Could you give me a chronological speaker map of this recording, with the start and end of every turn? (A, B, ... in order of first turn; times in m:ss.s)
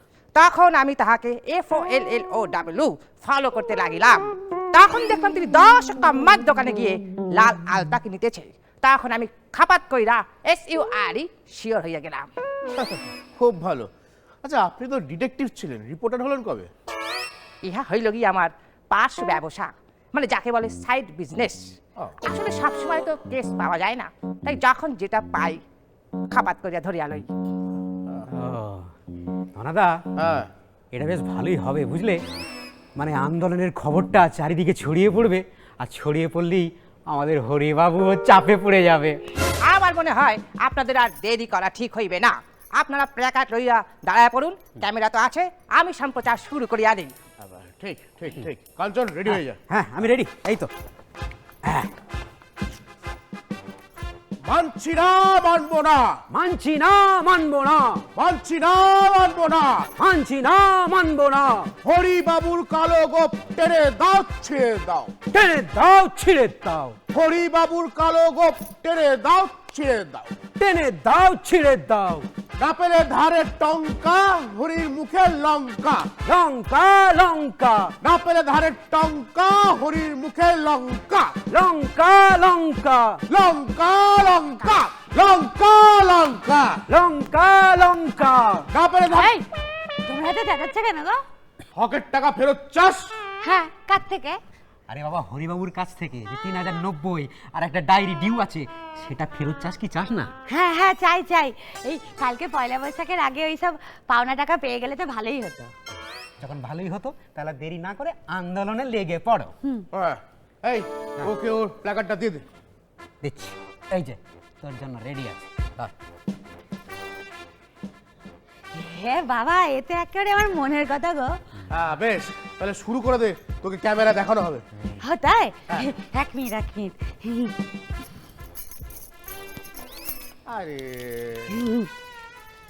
0:00.4-0:12.3 A
0:12.8-0:13.9 B
0:14.4-0:16.7 B
0:17.6-0:25.6 A
0:26.3-0:27.3 A
0:28.3-0:28.9 C
0:29.6-0:30.0 C
0:30.2-0:30.5 B
0:30.9-0:32.2 C
0:33.0-0:39.2 C
0:39.6-0:47.1 A
0:47.4-0:49.6 B
0:49.3-0:50.7 C
0:51.6-0:51.9 C
0:54.4-0:56.2 B
0:56.3-0:58.0 C
0:58.2-0:59.9 B
1:00.0-1:01.7 C
1:01.8-1:05.1 B
1:05.3-1:07.0 C
1:07.1-1:10.4 B
1:10.6-1:12.3 C
1:12.6-1:16.1 B
1:16.2-1:18.0 C
1:18.0-1:21.4 B
1:21.5-1:23.2 C
1:23.3-1:26.8 B
1:26.9-1:28.7 C
1:28.7-1:29.3 B
1:29.1-1:29.5 D
1:30.1-1:31.2 D
1:31.8-1:33.2 B
1:33.4-1:34.4 D
1:34.9-1:40.3 C
1:40.5-1:45.7 D
1:46.4-1:49.6 C
1:49.9-1:52.4 B
1:53.2-1:55.9 C
1:58.8-2:01.4 D
2:01.7-2:04.6 B
2:05.0-2:07.5 D
2:10.5-2:11.6 B
2:11.5-2:11.9 D